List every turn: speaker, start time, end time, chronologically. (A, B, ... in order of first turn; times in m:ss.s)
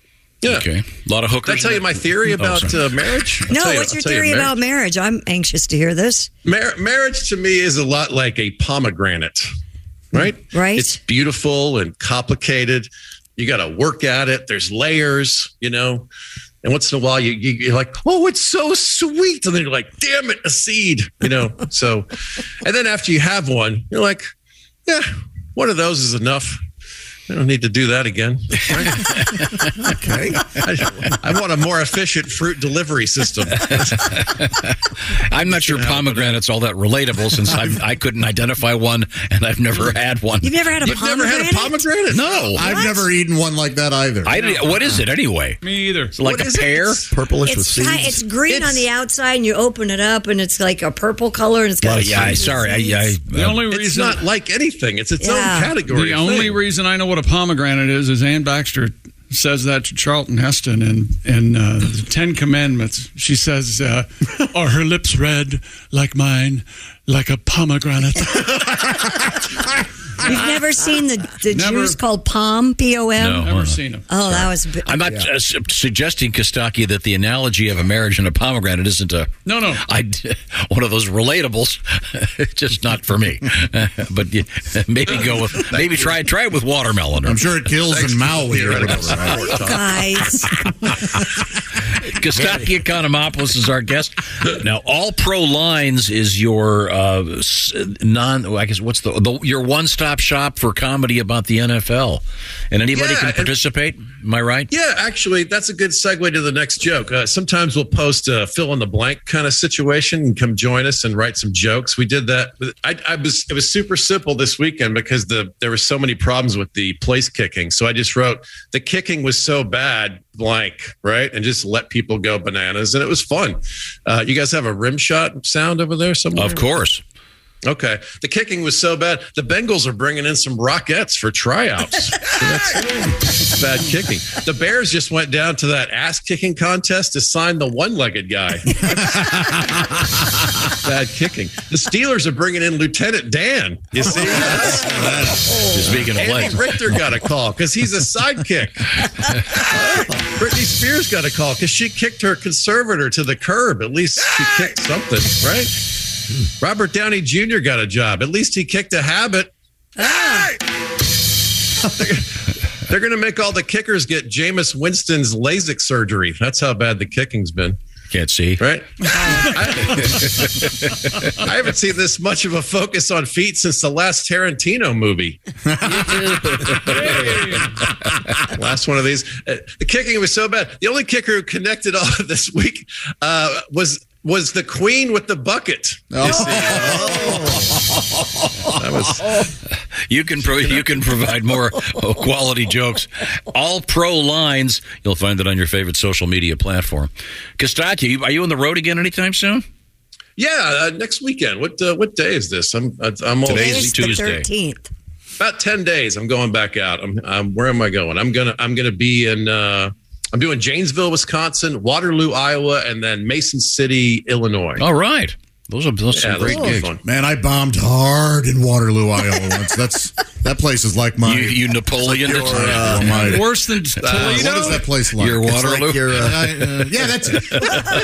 0:00.4-0:00.7 A
0:00.4-0:03.0 B
0:01.4-0:04.5 A
0:03.5-0:06.3 C
0:06.4-0:09.4 A
0:10.1-0:16.1 A
0:10.5-0:11.0 C
0:16.6-0:22.1 A
0:22.6-0:24.2 A
0:24.8-0:26.6 A
0:27.3-0:29.4 A
0:30.6-0:34.1 A
0:33.7-0:40.9 B
0:35.5-0:36.4 A
0:40.4-0:41.9 C
0:40.8-0:43.0 A
0:42.1-0:42.7 B
0:42.5-0:44.4 D
0:42.7-0:43.1 C
0:44.2-0:45.6 B
0:44.3-0:44.8 E
0:45.6-0:46.2 E
0:46.1-0:47.0 B
0:46.2-0:47.1 A
0:47.1-0:48.2 F
0:47.4-0:53.1 C
0:48.5-0:48.8 A
0:51.8-0:53.6 B
0:53.3-0:54.2 E
0:53.7-0:56.6 A
0:55.2-0:55.7 C
0:55.8-1:08.6 E
1:10.2-1:13.3 C
1:11.5-1:12.0 E
1:13.2-1:27.4 B
1:13.3-1:14.1 E
1:14.0-1:15.2 C
1:19.4-1:19.8 E
1:25.7-1:26.1 A
1:27.2-1:29.6 D
1:27.8-1:30.4 A
1:29.4-1:30.4 C
1:32.0-1:44.7 B
1:42.9-1:43.5 A
1:44.7-2:06.7 A
2:06.3-2:07.0 B
2:07.7-2:18.8 A
2:19.1-2:19.7 D
2:20.8-2:25.3 A
2:24.2-2:25.5 D
2:25.7-2:26.7 B
2:25.9-2:28.9 A
2:29.8-2:35.7 A
2:36.6-2:39.5 A
2:40.0-2:40.5 C
2:41.9-2:42.3 A
2:42.9-2:47.8 A
2:48.1-2:48.6 B
2:48.6-2:50.1 A
2:49.9-2:50.7 B
2:51.4-2:55.4 A
2:55.9-2:57.1 D
2:56.1-2:56.8 B
2:56.8-2:57.3 A
2:56.9-2:57.6 E
2:58.5-3:07.6 A
3:06.1-3:07.6 D
3:08.8-3:09.4 A
3:10.0-3:19.6 B
3:20.4-3:24.4 A
3:23.4-3:24.5 B
3:23.5-3:24.9 C
3:25.4-3:34.8 A
3:34.8-3:36.9 B
3:36.1-3:37.0 A
3:36.4-3:36.8 C
3:37.0-3:45.5 D
3:41.2-3:43.2 B
3:42.2-3:42.9 F
3:43.0-3:44.8 E
3:44.0-3:44.9 A
3:45.2-3:46.3 B
3:45.6-3:46.4 F
3:46.2-3:47.9 D